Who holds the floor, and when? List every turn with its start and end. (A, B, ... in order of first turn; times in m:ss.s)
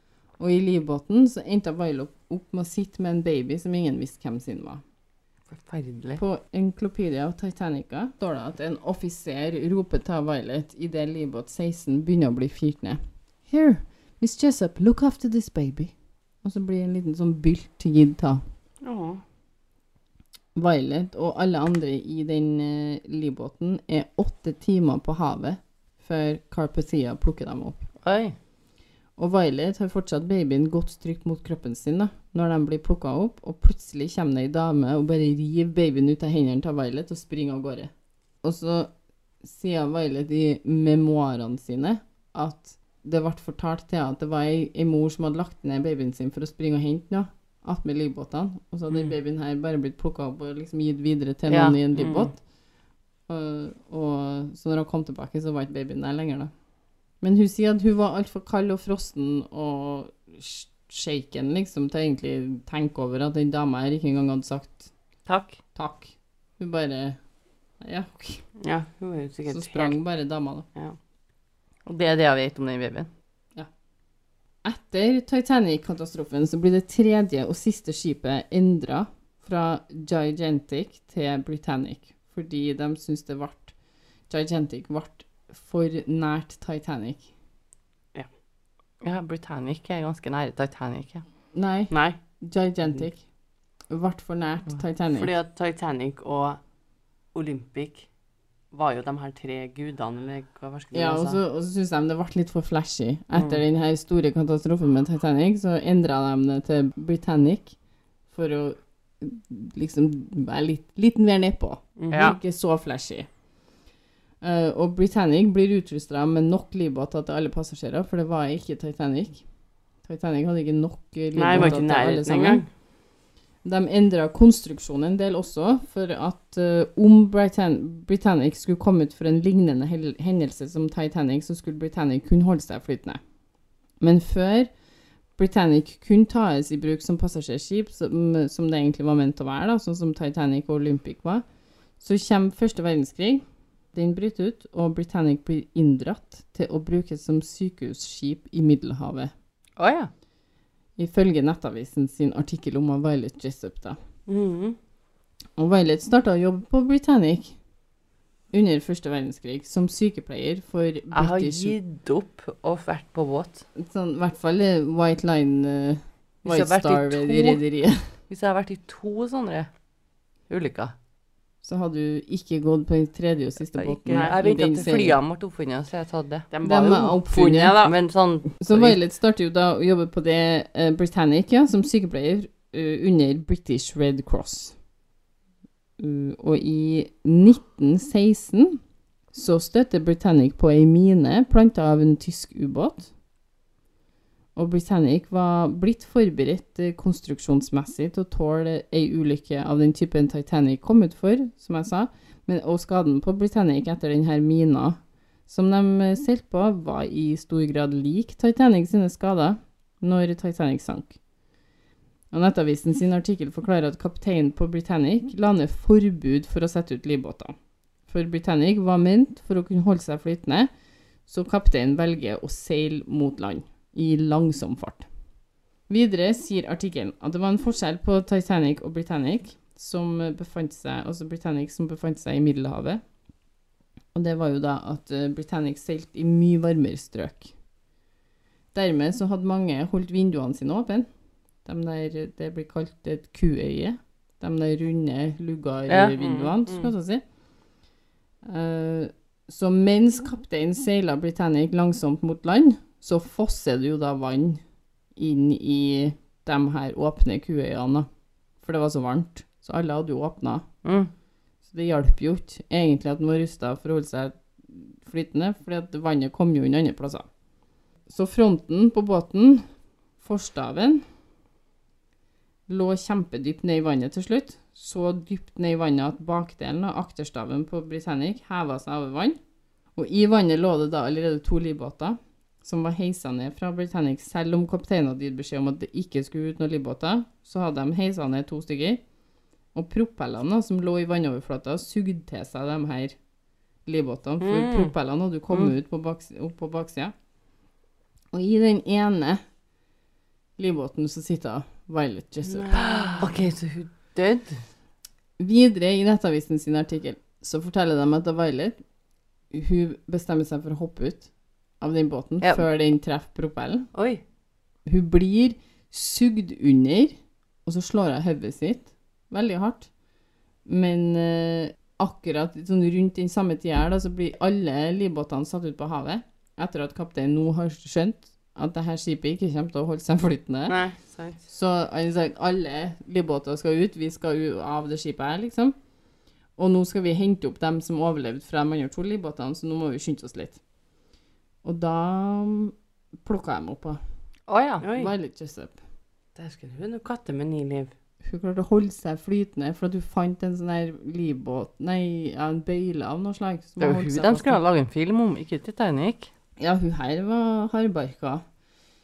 0:00.4-0:04.8 A
0:05.5-0:06.2 B
0:06.2-0:15.9 A
0:16.4-0:18.4 A
0:18.8-0:19.2 C
0:20.6-0:27.9 A
0:28.0-0:28.4 B
0:29.2-0:37.9 A
0:38.4-0:38.9 A
0:39.4-0:52.4 A
0:51.5-0:51.8 B
0:52.0-0:52.3 C
0:53.3-0:56.5 A
0:57.2-1:04.9 A
1:05.8-1:07.2 A
1:07.8-1:08.4 A
1:08.6-1:10.0 C
1:09.5-1:10.7 A
1:11.8-1:13.1 B
1:14.6-1:23.8 A
1:24.3-1:27.3 A
1:29.0-1:31.2 B
1:31.5-1:33.2 A
1:31.9-1:32.2 C
1:33.9-1:35.3 A
1:35.1-1:36.6 C
1:37.3-1:38.1 C
1:38.7-1:41.4 C
1:40.9-1:47.8 A
1:48.3-1:53.3 A
1:52.0-1:52.4 C
1:54.4-1:59.4 A
2:00.0-2:02.6 A
2:01.4-2:02.7 C
2:03.6-2:13.2 A
2:14.0-2:14.7 A
2:15.4-2:21.4 A
2:22.0-2:29.3 A
2:29.8-2:30.1 B
2:31.0-2:34.0 A
2:34.3-2:34.8 C
2:35.6-2:37.6 A
2:38.5-2:41.8 A
2:41.1-2:43.6 B
2:43.8-2:48.2 A
2:46.4-2:47.6 B
2:48.3-2:49.7 B
2:50.5-2:50.9 B
2:51.6-2:55.2 A
2:53.8-2:56.5 B
2:54.1-2:54.4 C
2:56.5-2:57.9 C
2:56.6-2:57.9 A
2:57.7-2:59.0 B
2:58.6-3:04.8 A
3:06.0-3:08.8 A
3:09.3-3:13.1 A
3:14.6-3:31.2 A
3:32.3-3:37.5 A
3:38.1-3:40.7 A
3:41.3-3:45.1 A
3:45.9-3:53.0 A
3:54.1-3:57.5 A
3:58.7-4:01.1 A
4:01.6-4:07.2 A
4:05.9-4:06.2 B
4:06.1-4:06.9 C
4:08.4-4:14.6 A
4:15.2-4:18.1 A
4:18.6-4:20.7 A
4:20.8-4:21.1 B
4:21.7-4:27.3 A
4:28.1-4:31.1 A
4:32.7-4:39.4 A
4:40.0-4:49.0 A
4:49.7-4:53.2 A
4:53.9-4:57.1 A
4:54.4-4:54.9 C
4:58.3-4:59.4 A
5:00.6-5:03.0 A
5:02.5-5:03.3 C
5:03.2-5:04.6 B
5:05.4-5:08.8 A
5:09.5-5:11.3 A
5:11.8-5:13.9 A
5:13.9-5:14.2 C
5:14.9-5:19.9 A
5:20.6-5:30.8 A
5:30.7-5:31.4 C
5:31.5-5:35.8 A
5:36.6-5:40.6 A
5:41.6-5:44.0 A
5:44.5-5:44.9 B
5:44.8-5:45.1 C
5:44.9-5:45.8 A
5:46.4-5:47.9 C
5:48.2-5:54.6 A
5:53.8-5:56.3 B
5:56.6-5:58.4 A